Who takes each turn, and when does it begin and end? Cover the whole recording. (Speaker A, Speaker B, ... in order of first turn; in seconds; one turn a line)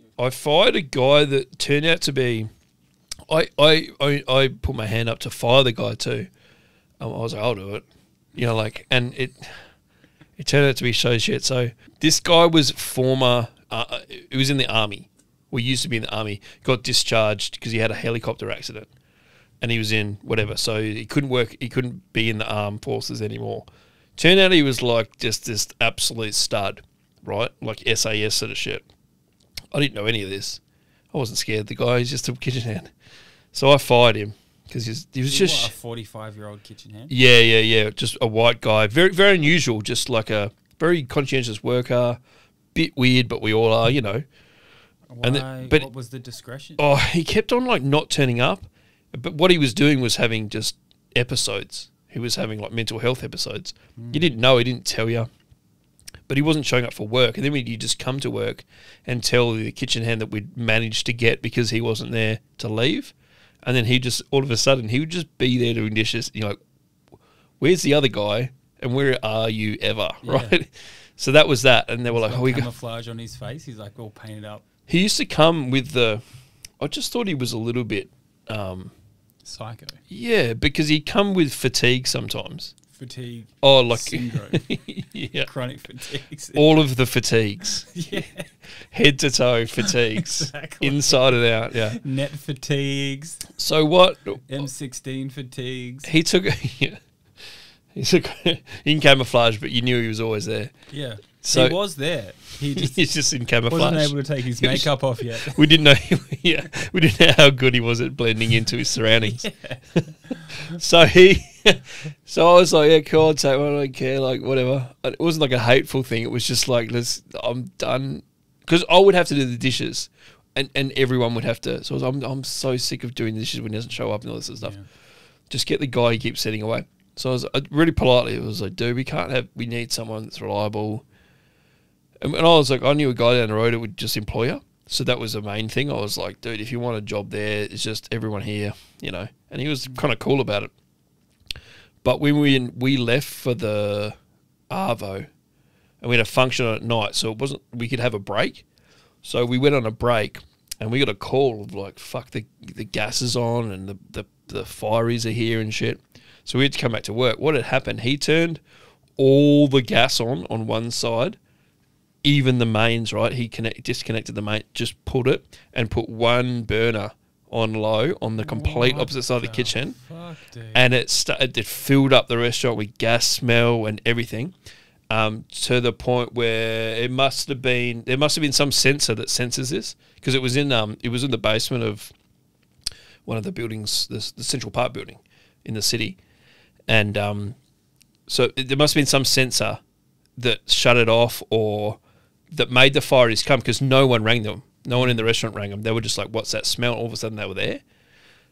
Speaker A: 0.2-2.5
Speaker A: 3.3-6.3
Speaker A: 7.0-9.6
Speaker A: 10.4-18.9
Speaker A: 19.6-28.9
Speaker A: 29.7-30.6
Speaker A: 31.1-32.9
Speaker A: 33.5-35.7
Speaker B: 35.3-37.1
Speaker A: 37.1-42.2
Speaker A: 42.7-44.2
Speaker B: 45.1-46.8
Speaker A: 45.2-45.9
Speaker A: 46.8-55.3
Speaker B: 54.0-54.2
Speaker A: 56.3-66.6
Speaker A: 67.6-72.7
Speaker B: 70.2-70.6
Speaker B: 72.1-74.6
Speaker A: 74.9-76.2
Speaker A: 76.8-78.9
Speaker B: 79.4-80.0
Speaker A: 80.1-82.7
Speaker B: 82.9-86.7
Speaker A: 83.6-85.5
Speaker A: 86.5-88.3
Speaker B: 87.9-88.5
Speaker A: 88.9-92.0
Speaker B: 89.9-93.5
Speaker A: 93.6-94.7
Speaker B: 94.5-96.1
Speaker A: 96.0-101.8
Speaker B: 100.9-103.0
Speaker A: 102.6-109.8
Speaker B: 103.7-105.7
Speaker B: 109.3-110.1
Speaker A: 110.7-124.8
Speaker B: 124.6-124.9
Speaker A: 125.5-131.0
Speaker A: 132.2-140.7
Speaker A: 142.0-144.2
Speaker A: 144.7-145.3
Speaker A: 146.0-148.7
Speaker A: 149.2-158.6
Speaker A: 159.2-161.4
Speaker A: 162.2-170.1
Speaker B: 168.4-170.8
Speaker A: 170.7-174.5
Speaker A: 175.1-182.1
Speaker A: 183.2-186.2
Speaker A: 186.9-187.6
Speaker A: 188.3-189.8
Speaker A: 190.4-197.8
Speaker B: 194.9-195.3